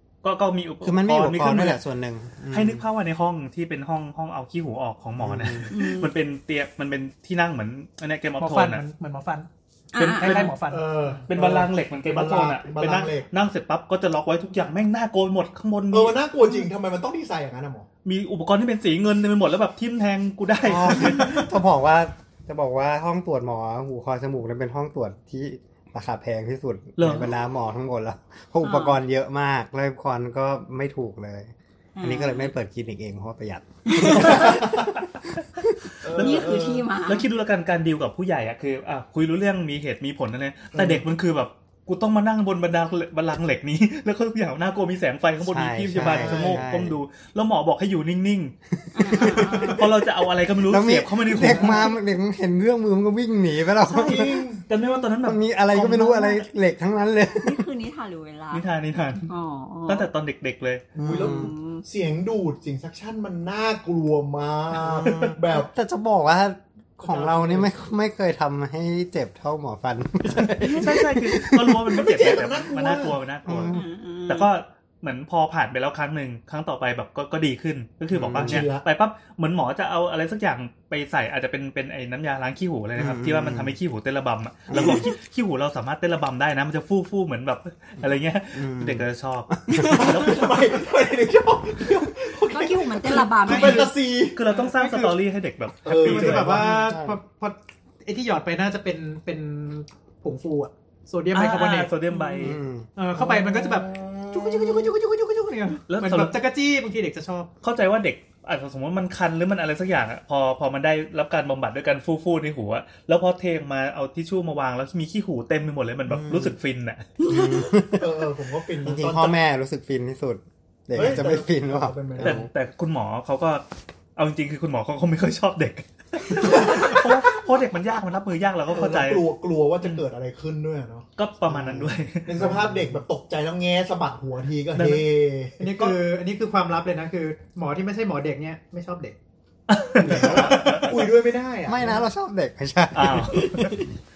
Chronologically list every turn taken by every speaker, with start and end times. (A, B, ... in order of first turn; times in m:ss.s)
0:00.2-0:01.8 A
0:00.8-0:02.8 B
0:02.5-0:08.8 A
0:05.2-0:05.7 B
0:05.7-0:06.1 C
0:08.4-0:11.2 D
0:09.9-0:10.5 C
0:10.0-0:10.6 A
0:10.6-0:13.3 E
0:11.3-0:16.6 A
0:15.9-0:17.9 E
0:18.0-0:21.5 A
0:20.6-0:35.8 B
0:27.0-0:27.3 A
0:28.6-0:29.0 C
0:32.0-0:32.5 C
0:33.9-0:34.6 C
0:34.3-0:34.6 E
0:36.0-0:36.9 E
0:36.1-0:48.5 A
0:36.2-0:37.3 C
0:40.7-0:41.0 E
0:45.4-0:47.0 B
0:46.0-0:46.6 E
0:48.9-0:49.9 C
0:49.0-0:49.7 B
0:49.2-0:51.9 A
0:49.4-0:49.8 E
0:50.6-0:54.5 B
0:51.5-0:51.7 E
0:53.9-0:54.6 E
0:54.0-0:55.8 A
0:55.2-0:57.7 B
0:56.1-0:56.4 E
0:57.4-0:58.6 C
0:58.5-0:59.3 A
0:59.3-1:00.1 C
0:59.9-1:00.9 A
1:00.9-1:05.7 E
1:01.0-1:01.5 B
1:01.0-1:01.8 C
1:04.7-1:12.0 B
1:07.0-1:07.7 E
1:10.6-1:13.7 A
1:11.9-1:13.2 E
1:13.5-1:13.9 B
1:13.7-1:14.5 C
1:14.3-1:30.6 A
1:18.1-1:18.7 B
1:18.4-1:18.9 E
1:23.0-1:23.8 B
1:24.7-1:25.1 B
1:28.0-1:30.3 B
1:29.8-1:34.4 E
1:32.5-1:33.9 C
1:33.4-1:33.9 D
1:34.3-1:36.6 A
1:34.5-1:35.2 D
1:35.8-1:36.7 E
1:36.0-1:41.9 D
1:36.4-1:37.2 B
1:41.3-1:42.6 A
1:42.1-1:42.4 C
1:42.4-1:42.9 B
1:43.0-1:47.5 D
1:43.1-1:44.9 E
1:45.9-1:46.4 A
1:47.6-1:57.1 A
1:56.1-1:56.6 B
1:57.2-1:58.2 B
1:57.9-1:59.4 E
1:58.8-2:02.5 B
2:00.9-2:02.5 E
2:02.2-2:03.6 A
2:04.2-2:09.3 A
2:06.4-2:07.3 E
2:08.7-2:11.1 E
2:11.2-2:12.6 A
2:11.5-2:13.0 B
2:12.3-2:16.0 E
2:14.8-2:15.0 A
2:15.6-2:19.2 D
2:19.7-2:21.0 A
2:20.0-2:22.0 E
2:20.0-2:20.8 B
2:21.6-2:23.9 B
2:22.9-2:23.8 A